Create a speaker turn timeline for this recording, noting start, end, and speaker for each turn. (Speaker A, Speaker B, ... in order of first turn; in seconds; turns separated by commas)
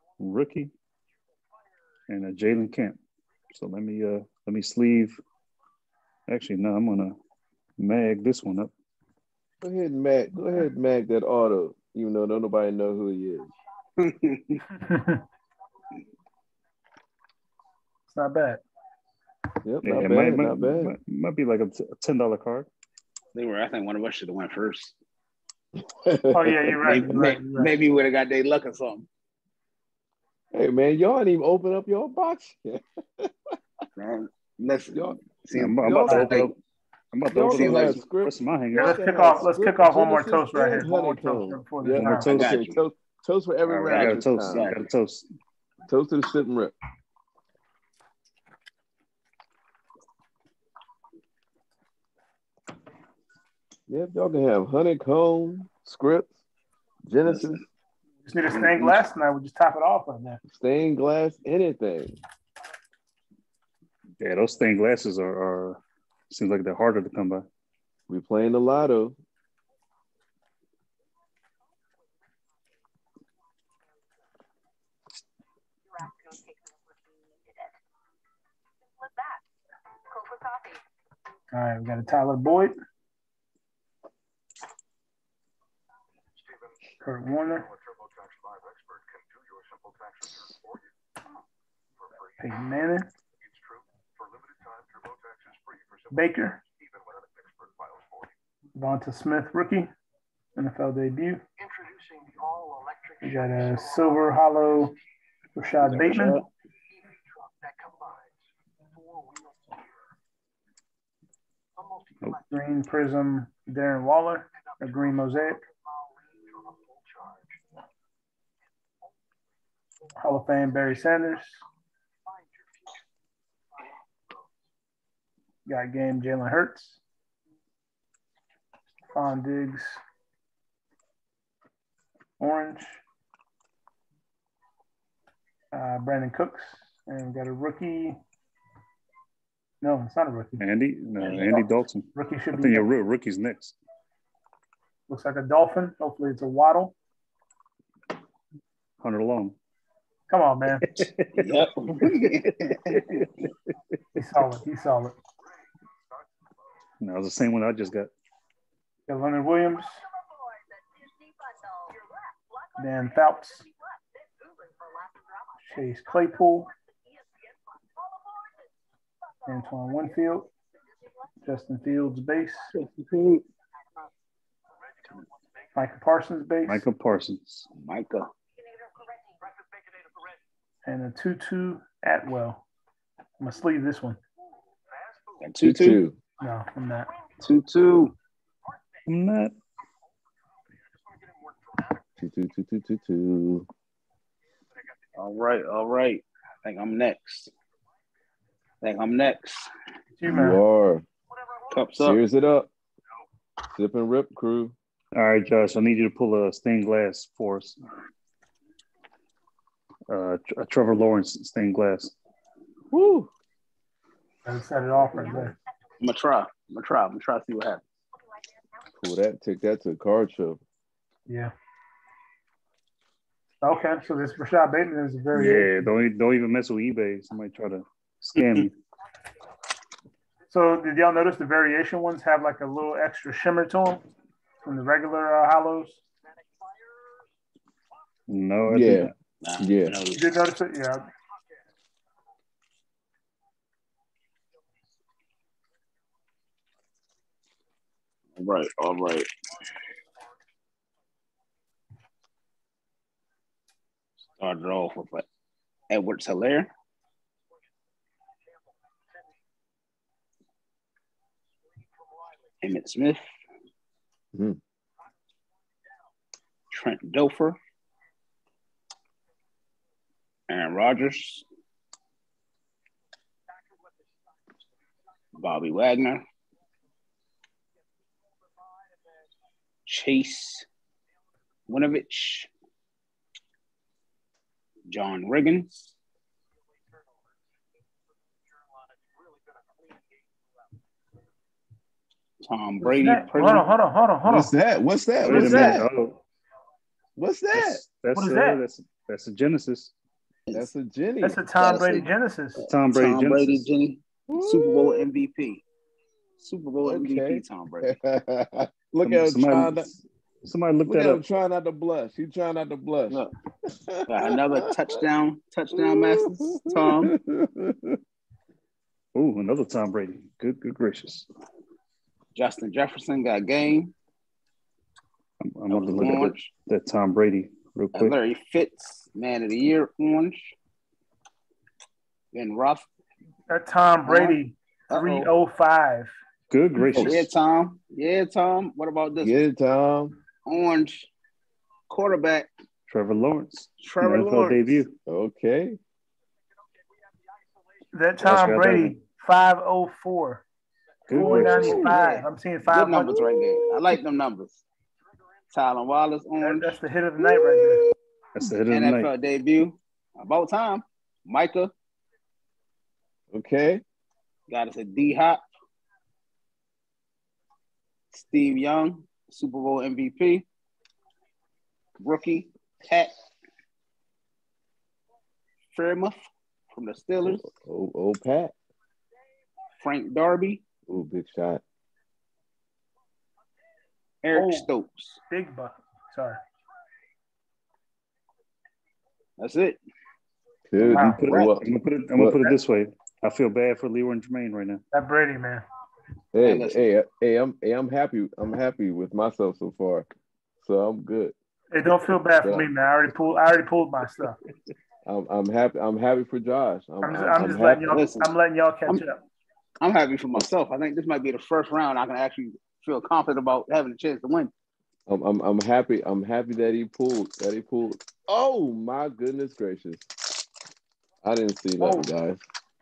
Speaker A: 0.2-0.7, Speaker A: 2.1-3.0, Speaker A: 3.5-5.2, Speaker A: 6.3-7.2, Speaker A: 7.8-8.7, Speaker B: 9.6-13.5, Speaker C: 14.0-14.6, Speaker D: 14.8-15.2, Speaker D: 18.1-18.6, Speaker B: 19.6-20.9, Speaker A: 19.8-22.7, Speaker C: 23.3-24.9, Speaker B: 25.9-27.0, Speaker D: 26.3-27.8, Speaker C: 26.9-29.1, Speaker B: 30.5-33.3, Speaker C: 34.0-36.5, Speaker B: 34.9-35.2, Speaker A: 35.5-36.5, Speaker D: 36.0-36.4, Speaker A: 37.1-39.0, Speaker B: 37.3-44.7, Speaker C: 37.5-38.1, Speaker D: 38.8-42.4, Speaker A: 42.0-42.5, Speaker C: 42.3-42.8, Speaker A: 43.7-45.3, Speaker C: 43.9-44.8, Speaker B: 45.9-46.7, Speaker B: 53.9-56.4, Speaker B: 57.1-57.6, Speaker C: 57.3-57.5, Speaker D: 58.2-60.4, Speaker C: 58.5-59.0, Speaker B: 60.5-62.2, Speaker A: 64.2-67.5, Speaker B: 68.1-69.2, Speaker D: 81.5-82.8, Speaker D: 87.0-87.7, Speaker D: 92.4-93.1, Speaker D: 96.1-96.6, Speaker D: 98.8-99.9, Speaker D: 100.6-101.4, Speaker D: 103.2-105.0, Speaker D: 105.6-106.4, Speaker C: 105.9-106.5, Speaker D: 112.5-115.6, Speaker D: 120.2-121.6, Speaker D: 125.7-127.0, Speaker D: 129.1-130.0, Speaker D: 132.4-133.0, Speaker D: 135.7-138.2, Speaker D: 139.8-140.6, Speaker A: 140.6-143.8, Speaker C: 141.2-141.7, Speaker D: 142.1-142.9, Speaker D: 145.1-146.9, Speaker A: 149.0-149.6, Speaker D: 150.3-151.0, Speaker A: 150.9-151.4, Speaker C: 151.3-153.3, Speaker D: 154.2-155.2, Speaker A: 157.0-158.1, Speaker D: 159.1-160.0, Speaker D: 162.8-163.7, Speaker D: 165.6-166.7, Speaker D: 169.5-170.5, Speaker D: 171.4-172.7, Speaker C: 172.8-173.4, Speaker D: 175.7-176.9, Speaker A: 176.7-177.7, Speaker C: 177.8-178.3, Speaker D: 180.8-182.6, Speaker D: 183.4-184.2, Speaker C: 185.4-186.0, Speaker B: 185.6-186.2, Speaker D: 186.4-187.1, Speaker C: 187.4-188.1, Speaker A: 189.1-189.5, Speaker B: 192.2-193.7, Speaker C: 195.2-197.5, Speaker C: 198.8-199.7, Speaker D: 200.2-200.6, Speaker B: 200.3-201.1, Speaker C: 201.7-202.2, Speaker B: 202.0-202.7, Speaker B: 203.7-204.8, Speaker A: 205.1-207.8, Speaker A: 210.1-212.1, Speaker B: 212.9-213.3, Speaker D: 214.4-215.5, Speaker B: 215.0-215.6, Speaker C: 216.0-217.8, Speaker B: 218.9-220.6, Speaker D: 221.3-221.5, Speaker D: 223.6-225.9, Speaker A: 225.3-228.7, Speaker C: 228.4-228.7, Speaker D: 230.5-234.1, Speaker D: 234.6-236.0, Speaker A: 238.3-239.1, Speaker B: 238.7-240.0, Speaker C: 239.4-240.3, Speaker D: 240.1-241.1, Speaker C: 248.4-249.3, Speaker C: 254.4-255.2, Speaker C: 255.9-256.7, Speaker C: 262.6-263.2, Speaker C: 266.7-267.6, Speaker C: 270.5-271.4, Speaker C: 275.4-276.2, Speaker C: 279.9-280.7, Speaker C: 281.7-282.5, Speaker C: 284.9-285.9, Speaker C: 292.4-293.7, Speaker D: 292.8-294.5, Speaker B: 294.2-295.9, Speaker A: 295.2-296.2, Speaker D: 295.2-295.8, Speaker B: 297.2-297.8, Speaker A: 297.5-299.9, Speaker D: 298.1-298.6, Speaker B: 300.5-301.4, Speaker D: 301.2-302.7, Speaker C: 301.6-305.6, Speaker A: 302.7-303.7, Speaker B: 304.3-305.0, Speaker C: 306.4-307.9, Speaker B: 306.8-309.9, Speaker A: 309.1-311.2, Speaker B: 310.9-314.9, Speaker C: 314.1-317.1, Speaker B: 315.8-318.0, Speaker A: 319.1-321.3, Speaker C: 322.4-323.9, Speaker A: 325.4-328.1, Speaker C: 325.7-326.5, Speaker C: 327.9-330.5, Speaker C: 332.3-332.9, Speaker D: 333.5-336.1, Speaker C: 334.1-334.4, Speaker C: 334.9-335.3, Speaker A: 336.5-337.3, Speaker C: 336.8-339.4, Speaker B: 339.2-340.2, Speaker C: 340.4-341.1, Speaker C: 341.9-342.5, Speaker A: 342.9-344.9, Speaker C: 343.8-344.9, Speaker B: 345.1-345.8, Speaker D: 347.9-350.4, Speaker A: 348.2-349.0, Speaker A: 351.1-351.9, Speaker D: 351.1-353.2, Speaker B: 351.2-351.9, Speaker C: 351.8-354.6, Speaker B: 353.2-353.6, Speaker C: 355.5-356.8, Speaker D: 356.4-357.8, Speaker A: 358.4-359.1, Speaker C: 358.7-361.7, Speaker B: 363.3-363.8, Speaker C: 364.5-365.4, Speaker C: 368.1-370.5, Speaker C: 372.0-373.1, Speaker C: 375.7-376.2, Speaker C: 376.7-377.5, Speaker B: 377.2-378.5, Speaker C: 379.8-380.6, Speaker B: 380.9-381.6, Speaker C: 384.2-385.2, Speaker D: 384.3-384.7, Speaker D: 385.3-386.4, Speaker C: 389.4-389.8, Speaker B: 390.7-392.4, Speaker A: 390.8-394.8, Speaker D: 390.9-391.2, Speaker C: 391.2-391.6, Speaker D: 394.9-395.6, Speaker B: 396.3-400.1, Speaker C: 396.4-396.8, Speaker B: 400.6-401.3, Speaker D: 401.7-404.4, Speaker B: 402.4-402.7, Speaker B: 405.1-407.9, Speaker D: 407.0-409.2, Speaker C: 407.9-408.3, Speaker C: 409.8-414.5, Speaker B: 415.1-420.1, Speaker B: 421.2-422.4, Speaker D: 421.8-422.1